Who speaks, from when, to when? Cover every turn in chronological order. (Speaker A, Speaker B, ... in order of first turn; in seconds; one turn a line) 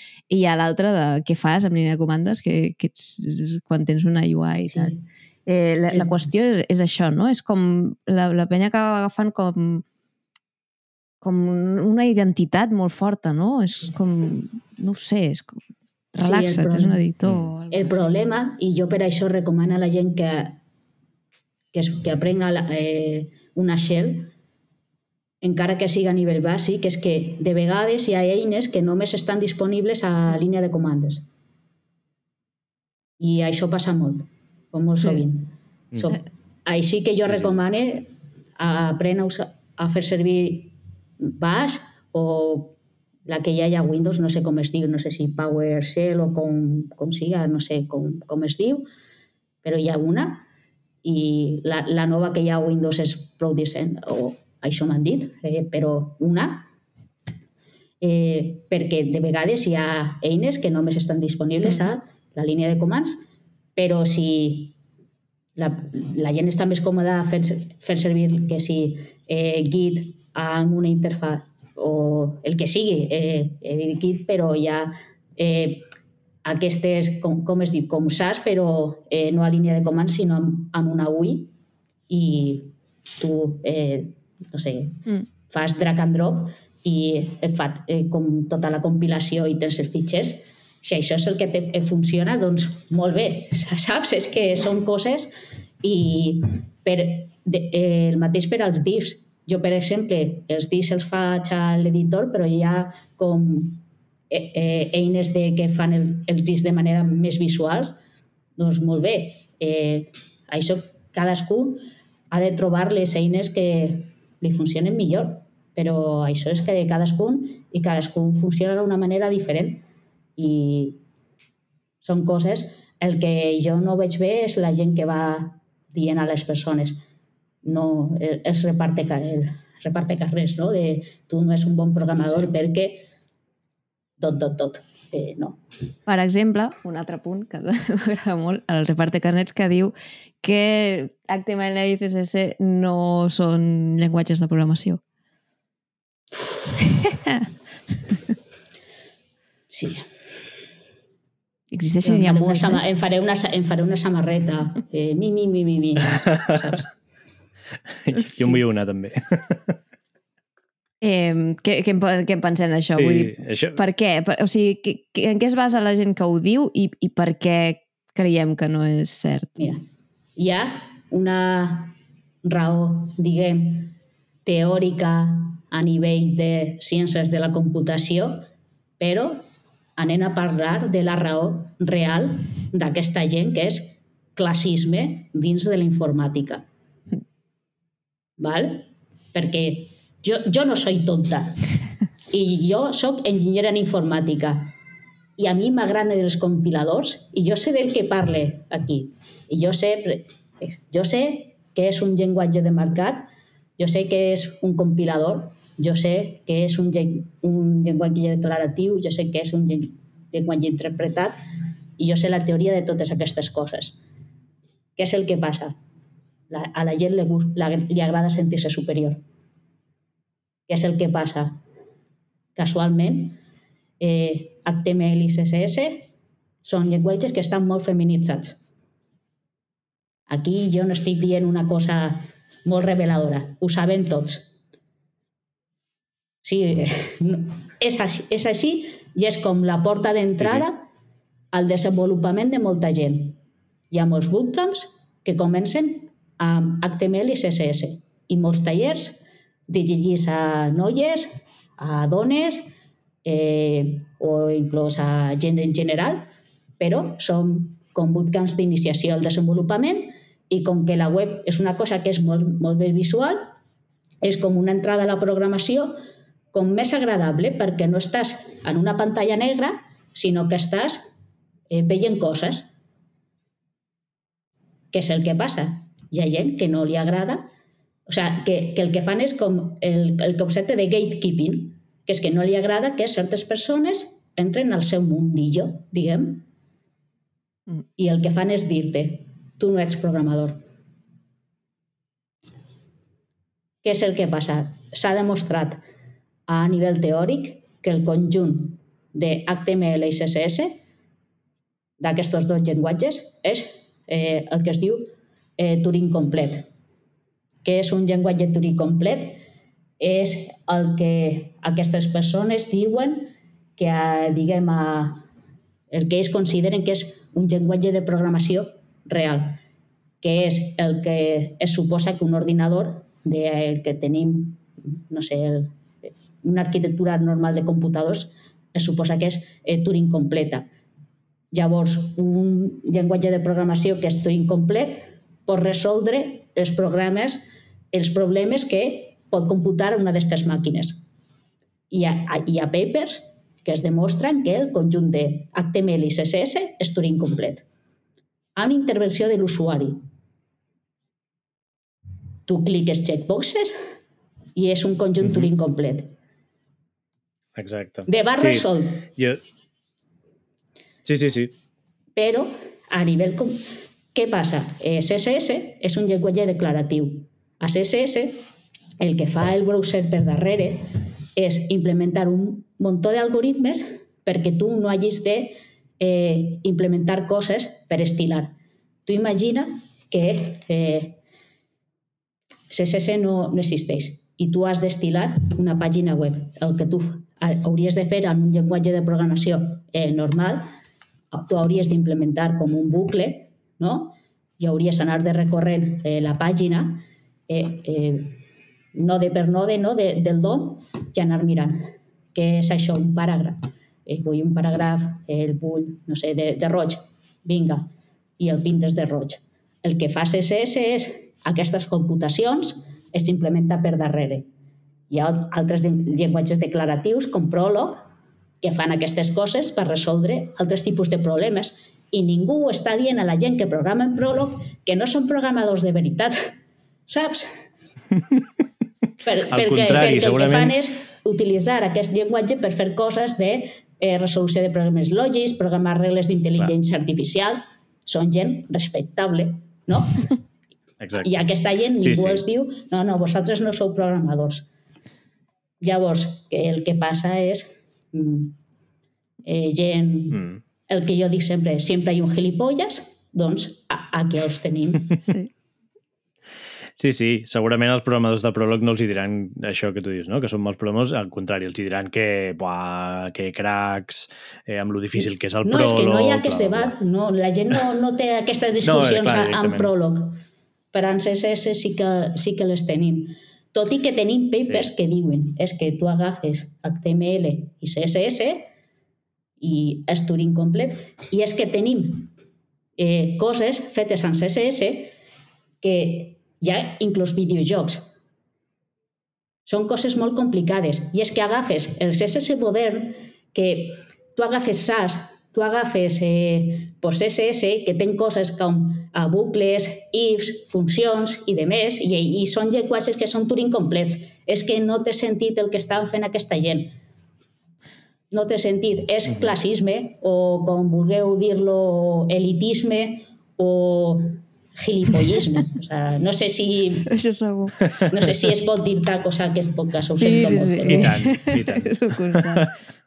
Speaker A: 0.3-5.0
Speaker B: 4.7-5.0
Speaker A: 5.5-9.8
Speaker B: 5.9-6.2
Speaker A: 11.2-15.5
Speaker A: 16.1-18.0
Speaker B: 16.2-17.0
Speaker C: 17.2-17.5
Speaker B: 17.7-20.6
Speaker B: 21.7-24.3
Speaker B: 25.4-31.2
Speaker B: 33.2-42.8
Speaker B: 43.3-48.9
Speaker B: 49.6-50.5
Speaker B: 51.0-56.7
Speaker B: 58.0-63.2
Speaker B: 63.8-64.8
Speaker B: 65.6-75.9
Speaker B: 76.5-81.5
Speaker B: 82.1-108.0
Speaker B: 108.6-119.8
Speaker B: 120.4-121.0
Speaker B: 122.0-127.0
Speaker B: 127.6-133.1
Speaker B: 134.2-135.6
Speaker A: 136.1-145.0
Speaker A: 146.8-147.5
Speaker B: 149.7-150.1
Speaker A: 151.7-152.8
Speaker B: 152.0-156.9
Speaker C: 158.1-159.8
Speaker A: 158.3-158.6
Speaker A: 161.0-169.6
Speaker C: 162.9-163.8
Speaker B: 169.6-169.8
Speaker B: 170.4-173.9
Speaker B: 174.4-178.5
Speaker B: 179.0-179.4
Speaker B: 180.0-186.7
Speaker B: 188.4-191.6
Speaker B: 192.3-194.7
Speaker B: 195.4-211.4
Speaker B: 212.0-214.0
Speaker B: 215.0-215.8
Speaker B: 216.5-219.2
Speaker B: 220.7-221.6
Speaker B: 222.6-223.4
Speaker B: 224.0-226.1
Speaker B: 226.7-228.6
Speaker B: 230.3-234.5
Speaker B: 236.4-240.9
Speaker C: 240.4-240.7
Speaker B: 241.5-243.4
Speaker B: 243.9-252.7
Speaker B: 253.2-263.6
Speaker B: 264.2-266.0
Speaker B: 266.5-271.1
Speaker B: 271.7-272.7
Speaker B: 274.9-277.5
Speaker B: 278.1-286.5
Speaker B: 288.0-290.6
Speaker B: 293.8-295.8
Speaker B: 296.5-300.8
Speaker B: 302.0-306.7
Speaker B: 307.6-309.4
Speaker B: 310.0-315.3
Speaker B: 315.9-319.6
Speaker B: 320.2-325.8
Speaker B: 326.4-330.7
Speaker B: 331.5-341.0
Speaker B: 341.9-347.6
Speaker B: 348.6-350.0
Speaker B: 352.5-353.8
Speaker B: 354.6-356.1
Speaker C: 355.2-355.5
Speaker C: 357.6-359.4
Speaker B: 358.1-359.1
Speaker C: 361.1-361.5
Speaker B: 362.2-368.4
Speaker B: 369.0-381.2
Speaker B: 382.7-390.7
Speaker B: 391.3-398.4
Speaker B: 398.9-414.5
Speaker B: 415.1-426.5
Speaker B: 427.1-427.6
Speaker B: 429.2-440.3
Speaker C: 429.5-430.8
Speaker C: 441.0-441.4
Speaker B: 441.2-444.7
Speaker C: 442.0-442.4
Speaker B: 445.8-448.6
Speaker B: 449.4-455.2
Speaker A: 455.2-455.5
Speaker C: 457.0-466.9
Speaker B: 465.6-470.4
Speaker C: 468.8-469.9
Speaker B: 470.9-478.7
Speaker B: 479.6-482.3
Speaker B: 483.0-485.1
Speaker B: 485.8-488.1
Speaker B: 489.7-507.0
Speaker B: 508.3-517.1
Speaker A: 517.1-517.9
Speaker B: 518.0-521.1
Speaker A: 520.1-522.7
Speaker C: 520.9-522.7